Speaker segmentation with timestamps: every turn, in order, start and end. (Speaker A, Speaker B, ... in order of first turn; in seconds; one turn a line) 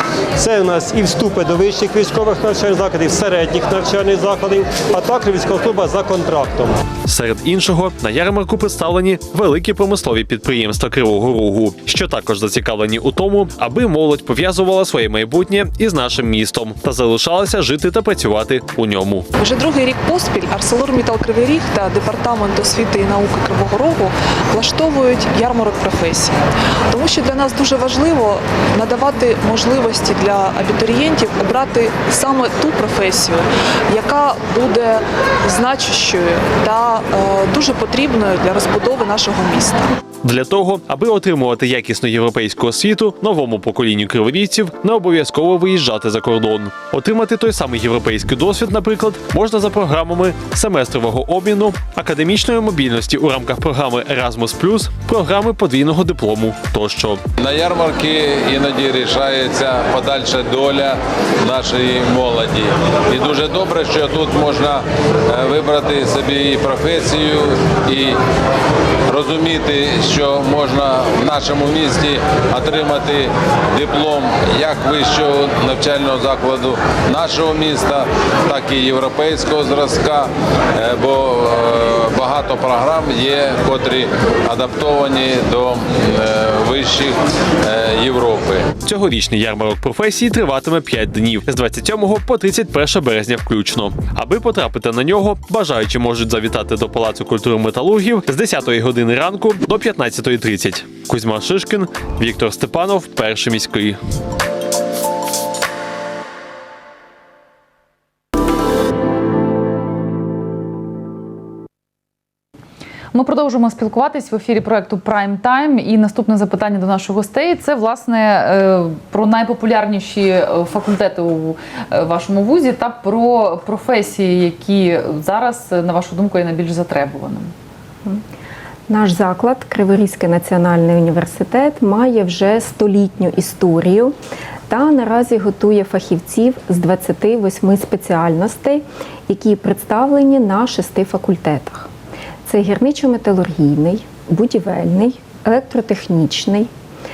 Speaker A: 0.4-6.8
Speaker B: 7.1-19.3
Speaker C: 19.4-26.4
Speaker C: 26.9-39.8
Speaker B: 40.2-57.2
Speaker D: 57.4-68.1
Speaker D: 69.1-88.7
Speaker B: 88.8-104.0
Speaker E: 113.1-127.5
Speaker F: 128.9-134.1
Speaker F: 134.7-141.9
Speaker F: 142.5-146.7